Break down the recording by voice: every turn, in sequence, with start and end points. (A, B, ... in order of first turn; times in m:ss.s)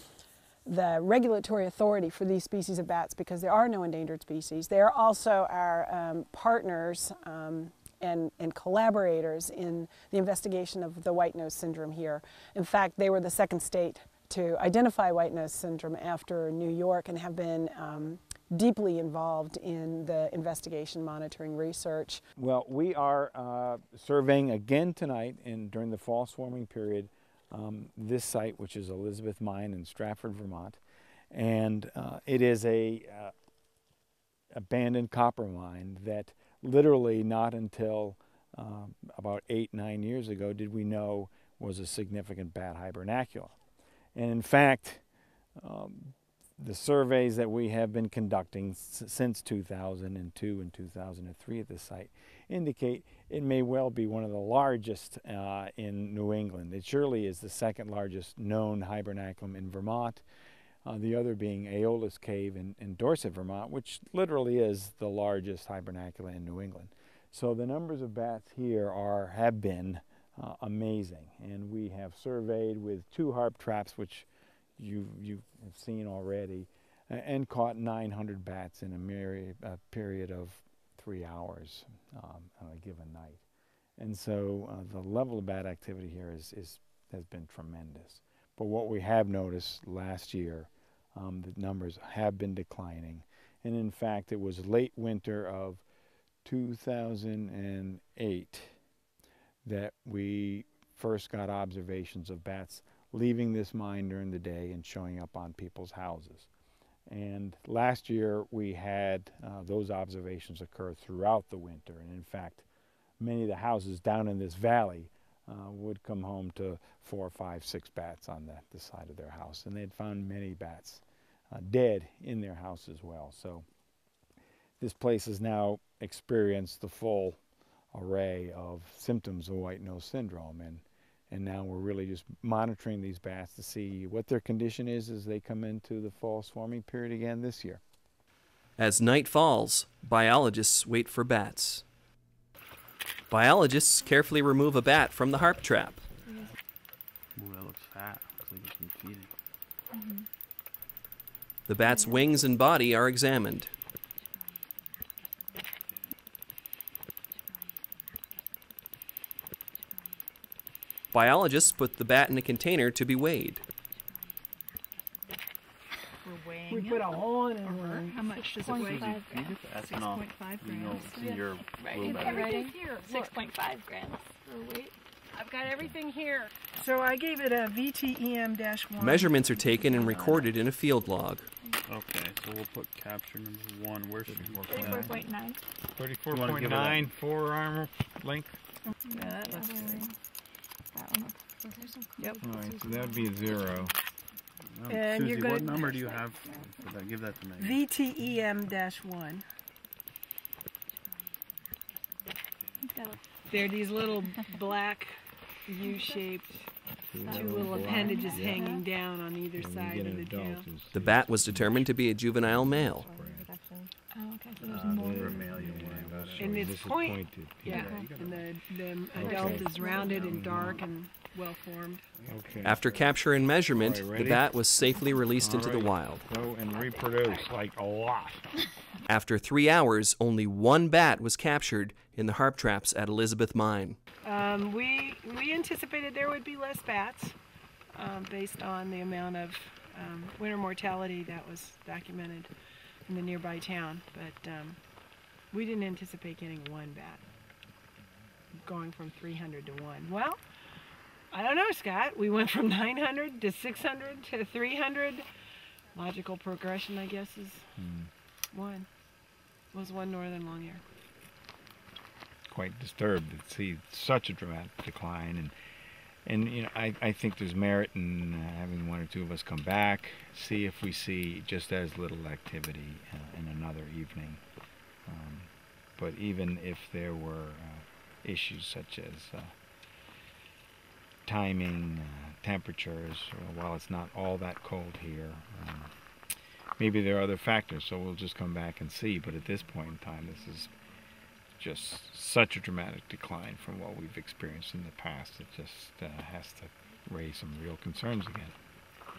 0:00.6-0:22.2 A
0:22.4-0:30.8 B
0:31.3-0:33.3 B
0:34.5-0:43.5 B
0:44.1-0:45.0 B
0:45.6-1:00.2 B
1:00.8-1:14.3 B
1:14.8-1:23.4 B
1:24.0-1:35.8 B
1:36.4-1:38.8 B
1:39.6-1:46.5 B
1:47.1-1:52.6 B
1:53.2-2:03.6 B
2:04.8-2:07.4 B
2:07.9-2:17.8 B
2:18.8-2:21.8 C
2:23.3-2:26.0 C
2:27.4-2:29.3 D
2:29.9-2:30.2 E
2:31.7-2:33.7 C
2:31.8-2:32.2 E
2:41.1-2:43.6 C
2:46.2-2:47.0 E
2:46.7-2:49.2 A
2:47.7-2:54.9 E
2:48.5-2:52.5 D
2:51.2-2:51.4 A
2:52.0-2:53.3 A
2:55.3-3:00.0 A
2:59.0-3:01.5 C
2:59.9-3:00.5 D
3:01.8-3:05.2 D
3:04.3-3:05.2 B
3:04.7-3:05.6 E
3:05.9-3:08.6 B
3:06.3-3:07.1 D
3:08.8-3:10.0 A
3:09.1-3:10.1 E
3:10.9-3:13.9 E
3:12.2-3:12.4 A
3:12.4-3:13.9 B
3:14.6-3:17.8 D
3:14.9-3:16.2 A
3:17.6-3:19.4 A
3:22.8-3:23.2 E
3:23.5-3:25.1 A
3:25.7-3:26.7 A
3:27.1-3:28.7 B
3:27.2-3:30.7 A
3:27.4-3:28.8 E
3:29.6-3:33.5 B
3:30.9-3:33.1 C
3:32.8-3:35.6 E
3:34.6-3:36.7 D
3:34.7-3:38.0 B
3:36.4-3:42.0 A
3:37.6-3:38.1 E
3:37.6-3:38.5 D
3:39.1-3:40.8 B
3:39.2-3:40.4 E
3:40.0-3:40.8 D
3:42.1-3:43.1 D
3:42.3-3:43.0 B
3:42.6-3:46.2 C
3:43.7-3:44.4 B
3:45.4-3:48.4 B
3:49.1-3:54.0 C
3:54.2-3:57.4 A
3:57.9-4:02.5 A
4:03.1-4:04.8 A
4:05.5-4:07.2 A
4:08.6-4:10.4 A
4:11.3-4:15.2 A
4:15.9-4:17.7 A
4:17.8-4:18.1 B
4:18.5-4:18.9 A
4:19.7-4:20.8 A
4:22.5-4:25.5 B
4:26.2-4:34.4 B
4:35.1-4:39.5 B
4:41.2-4:45.9 B
4:46.8-4:50.7 B
4:51.6-4:58.5 B